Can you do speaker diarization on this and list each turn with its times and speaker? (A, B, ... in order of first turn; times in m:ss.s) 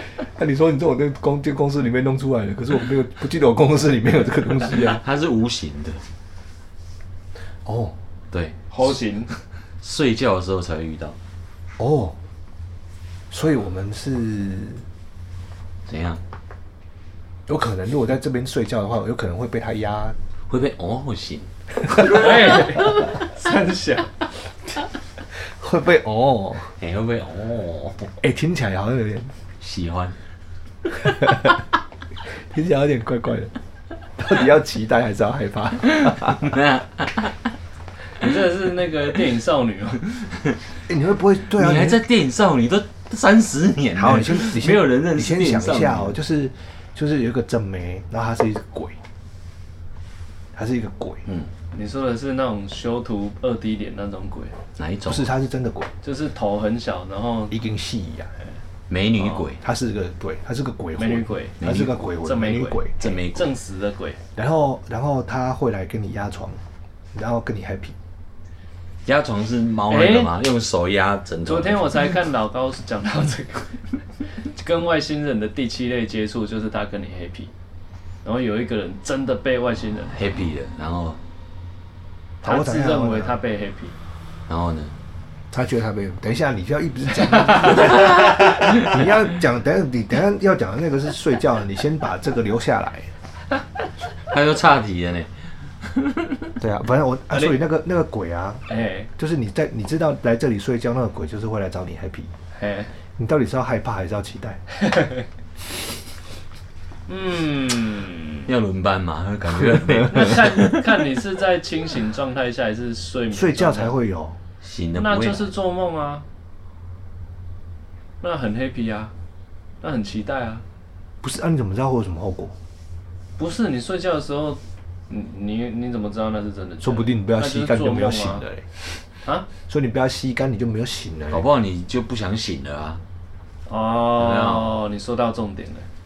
0:00.2-0:05.0 A
0:04.7-0:06.0 B
0:07.6-0:07.9 A
0:08.3-0:08.9 B
0:08.7-0:09.3 C
0:09.8-0:11.2 B
0:11.8-0:12.2 A
0:13.3-0:14.8 A
0:15.9-0:16.2 B
0:17.5-0:20.2 A
0:20.5-0:23.0 B
0:22.0-0:24.1 C
0:25.4-0:26.7 A
0:26.8-0:28.1 B
0:28.2-0:29.3 A
0:29.6-0:30.2 B
0:31.0-0:31.6 A
0:32.4-0:33.5 A
0:34.2-0:36.5 A
0:36.0-0:37.4 B
0:38.2-0:40.0 C
0:40.9-0:42.0 A
0:41.5-0:46.2 B
0:44.0-0:49.0 A
0:50.5-0:51.2 A
0:51.7-0:54.5 C
0:54.8-0:55.3 B
0:55.0-0:55.9 A
0:56.0-0:57.6 C
0:57.5-0:58.3 A
0:58.9-0:59.6 B
0:59.2-0:59.4 C
0:59.6-1:02.9 A
1:01.0-1:01.7 C
1:01.6-1:02.1 B
1:02.2-1:04.2 C
1:03.0-1:03.5 B
1:04.4-1:06.6 A
1:07.1-1:07.9 A
1:09.0-1:12.0 B
1:09.9-1:10.3 C
1:11.4-1:17.5 C
1:18.2-1:20.2 C
1:20.1-1:21.2 B
1:22.4-1:23.4 A
1:22.4-1:24.0 C
1:24.5-1:24.9 B
1:25.5-1:33.1 A
1:27.2-1:28.2 C
1:28.3-1:28.6 B
1:34.3-1:36.6 B
1:36.6-1:38.6 A
1:38.7-1:39.1 C
1:39.2-1:42.3 A
1:42.5-1:42.9 C
1:43.1-1:44.6 A
1:44.8-1:45.2 C
1:47.1-1:48.5 C
1:48.4-1:50.8 B
1:49.6-1:50.0 A
1:50.0-1:54.0 C
1:53.3-1:54.4 A
1:54.6-1:55.5 B
1:55.0-1:56.2 C
1:58.2-1:59.1 C
1:59.8-2:00.6 C
2:01.2-2:02.5 A
2:03.4-2:08.4 C
2:06.8-2:08.8 A
2:09.7-2:11.4 A
2:11.3-2:13.0 B
2:13.7-2:15.9 C
2:14.2-2:14.8 B